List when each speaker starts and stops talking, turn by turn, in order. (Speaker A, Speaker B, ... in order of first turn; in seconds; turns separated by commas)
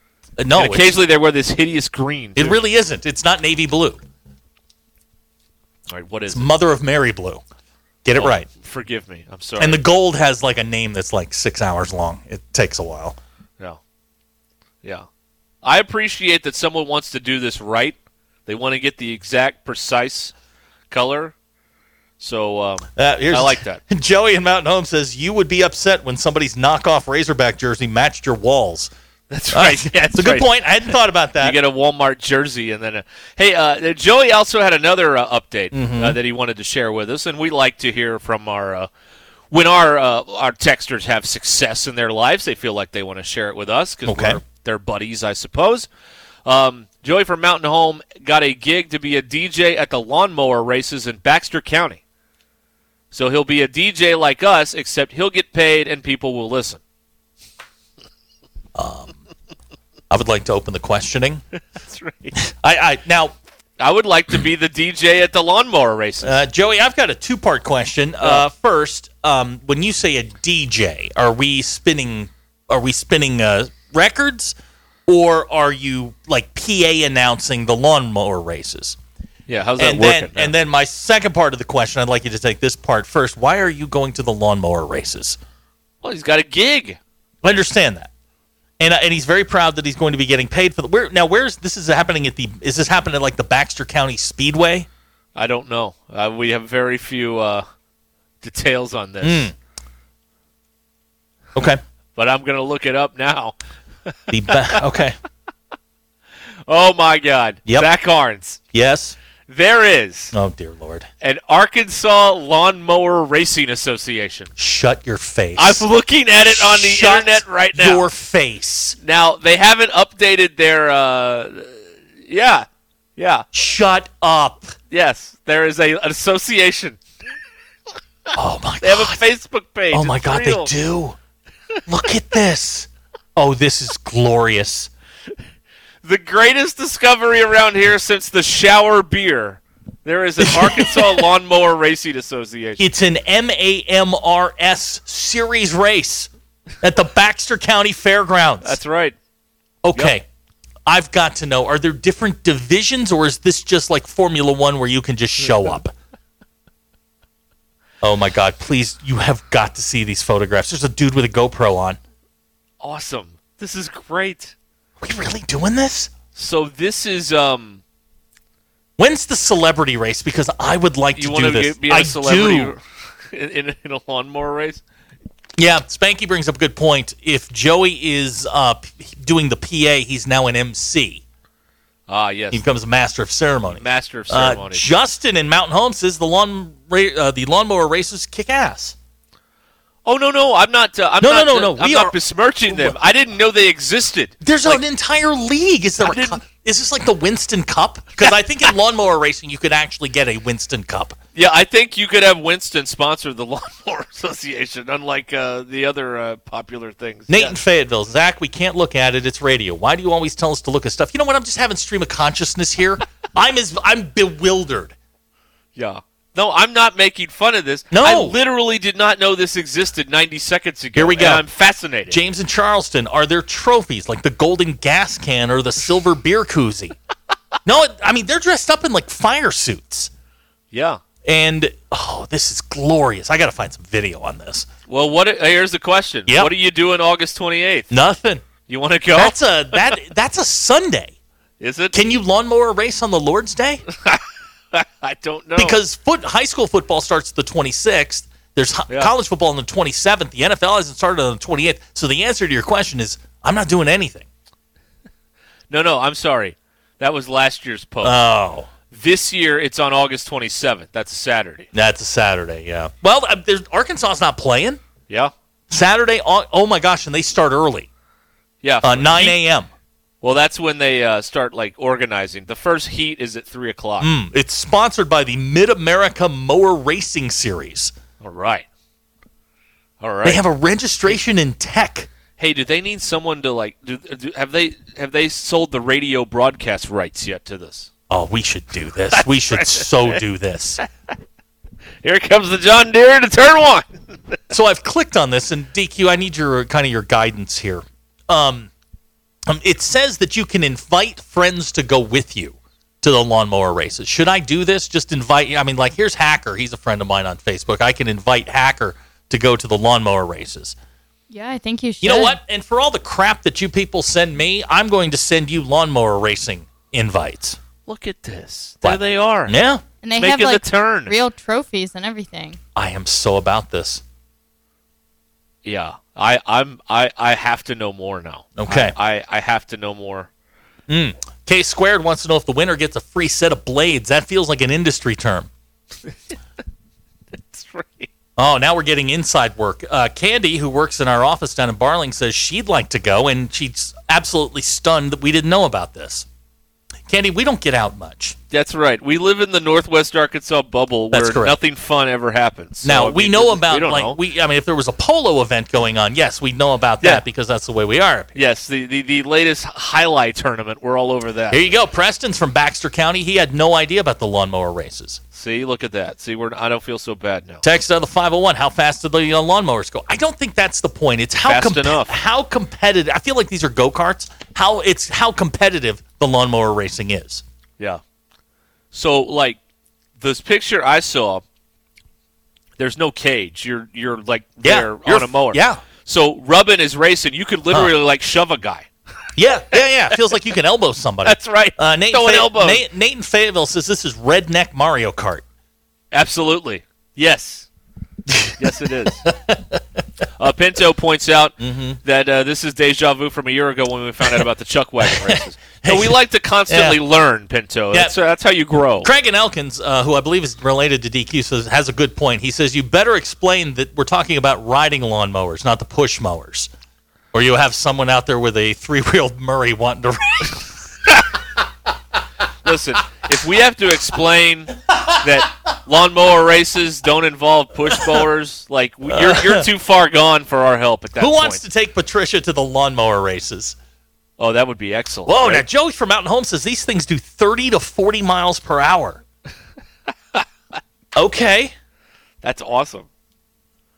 Speaker A: 0.4-1.0, Speaker B: 0.6-2.6, Speaker A: 2.4-4.0, Speaker B: 5.9-6.5, Speaker A: 6.3-7.4, Speaker A: 8.0-8.5, Speaker B: 8.2-9.8, Speaker A: 9.6-13.2, Speaker B: 15.6-20.3, Speaker B: 20.9-21.4, Speaker B: 22.2-23.8, Speaker A: 23.0-28.9, Speaker B: 29.3-30.5, Speaker A: 29.5-31.6, Speaker B: 31.4-38.9, Speaker A: 35.7-36.2, Speaker B: 39.5-45.9, Speaker A: 44.1-44.4, Speaker B: 46.5-52.0, Speaker B: 53.1-56.8, Speaker A: 58.8-59.1, Speaker A: 60.1-61.4, Speaker B: 61.8-62.4, Speaker A: 62.4-63.4, Speaker B: 63.8-66.4, Speaker A: 66.2-74.6, Speaker A: 75.1-79.0, Speaker B: 79.5-80.5, Speaker A: 79.8-85.4, Speaker B: 86.0-87.0, Speaker A: 87.4-88.1, Speaker A: 88.8-94.9, Speaker B: 95.3-97.7, Speaker B: 98.4-99.5, Speaker A: 99.2-99.5, Speaker A: 101.5-101.8, Speaker B: 102.2-103.5, Speaker B: 104.1-104.8, Speaker A: 104.3-105.2, Speaker B: 106.7-108.6, Speaker A: 108.7-109.2, Speaker B: 109.5-110.3, Speaker A: 110.3-111.1, Speaker B: 111.2-114.5, Speaker A: 114.6-115.8, Speaker B: 115.6-118.1, Speaker A: 116.4-119.0, Speaker B: 119.0-123.5, Speaker A: 123.5-124.8, Speaker B: 124.9-127.0, Speaker A: 128.3-129.2, Speaker B: 128.8-130.7, Speaker A: 129.9-131.2, Speaker A: 131.9-134.9, Speaker B: 136.0-142.9, Speaker A: 140.4-141.3, Speaker A: 142.8-146.3, Speaker A: 146.8-148.8, Speaker B: 148.6-149.2, Speaker A: 149.8-150.2, Speaker A: 150.9-155.9, Speaker A: 158.0-162.0, Speaker B: 162.8-164.6, Speaker A: 165.0-166.1, Speaker B: 166.3-167.8, Speaker A: 169.0-172.8, Speaker B: 171.2-174.8, Speaker A: 175.6-181.2, Speaker B: 182.1-182.6, Speaker A: 182.5-189.0, Speaker B: 183.7-184.9, Speaker B: 190.1-194.8, Speaker A: 191.2-193.0, Speaker A: 194.4-201.2, Speaker B: 196.0-196.4, Speaker B: 201.3-207.6, Speaker A: 207.3-214.9, Speaker B: 215.8-222.2, Speaker A: 217.9-218.4, Speaker A: 221.0-221.5, Speaker A: 222.1-226.9, Speaker A: 227.7-230.1, Speaker B: 230.7-231.0, Speaker A: 231.2-234.7, Speaker B: 234.9-237.9, Speaker A: 236.3-236.5, Speaker A: 237.9-238.4, Speaker B: 238.7-240.0, Speaker A: 239.2-241.1, Speaker B: 241.6-242.0, Speaker A: 241.9-243.8, Speaker B: 243.9-245.8, Speaker A: 245.6-254.3, Speaker B: 255.7-258.2, Speaker A: 258.0-258.7, Speaker B: 258.9-261.7, Speaker A: 261.7-264.8, Speaker A: 265.7-267.9, Speaker B: 268.6-269.4, Speaker A: 268.8-269.7, Speaker B: 270.2-274.1, Speaker A: 274.0-277.9, Speaker B: 278.2-278.6, Speaker B: 280.0-280.4, Speaker A: 280.2-282.1, Speaker B: 282.4-287.9, Speaker A: 288.1-290.8, Speaker B: 289.1-290.2, Speaker B: 292.0-294.4, Speaker A: 294.5-298.7, Speaker A: 299.5-310.8, Speaker C: 311.3-312.4, Speaker A: 312.0-317.6, Speaker B: 317.9-319.6, Speaker A: 318.8-319.8, Speaker C: 320.0-322.6, Speaker B: 320.2-321.2, Speaker A: 322.8-324.0, Speaker B: 325.6-330.3, Speaker A: 328.6-328.9, Speaker A: 330.9-335.5, Speaker B: 337.3-338.1, Speaker A: 338.4-346.3, Speaker A: 347.1-348.4, Speaker B: 348.5-354.2, Speaker A: 351.1-351.6, Speaker A: 352.8-358.3, Speaker B: 358.4-361.7, Speaker A: 361.5-365.2, Speaker B: 365.3-367.7, Speaker A: 367.6-377.4, Speaker B: 371.5-372.2, Speaker B: 378.9-379.6, Speaker B: 380.2-381.4, Speaker B: 382.8-388.9, Speaker A: 384.6-385.8, Speaker A: 389.4-395.4, Speaker B: 391.2-392.9, Speaker B: 396.1-397.7, Speaker A: 398.3-398.7, Speaker B: 398.6-399.3, Speaker A: 399.3-400.0, Speaker B: 400.4-409.1, Speaker A: 401.6-402.0, Speaker A: 405.1-407.0, Speaker A: 407.9-408.2, Speaker A: 409.0-416.7, Speaker A: 417.3-420.8, Speaker B: 422.6-431.6, Speaker A: 427.9-428.2, Speaker A: 429.1-429.7, Speaker A: 431.2-433.8, Speaker B: 434.4-435.7, Speaker A: 435.3-439.2, Speaker B: 440.3-440.8, Speaker A: 441.1-441.8, Speaker B: 442.4-443.1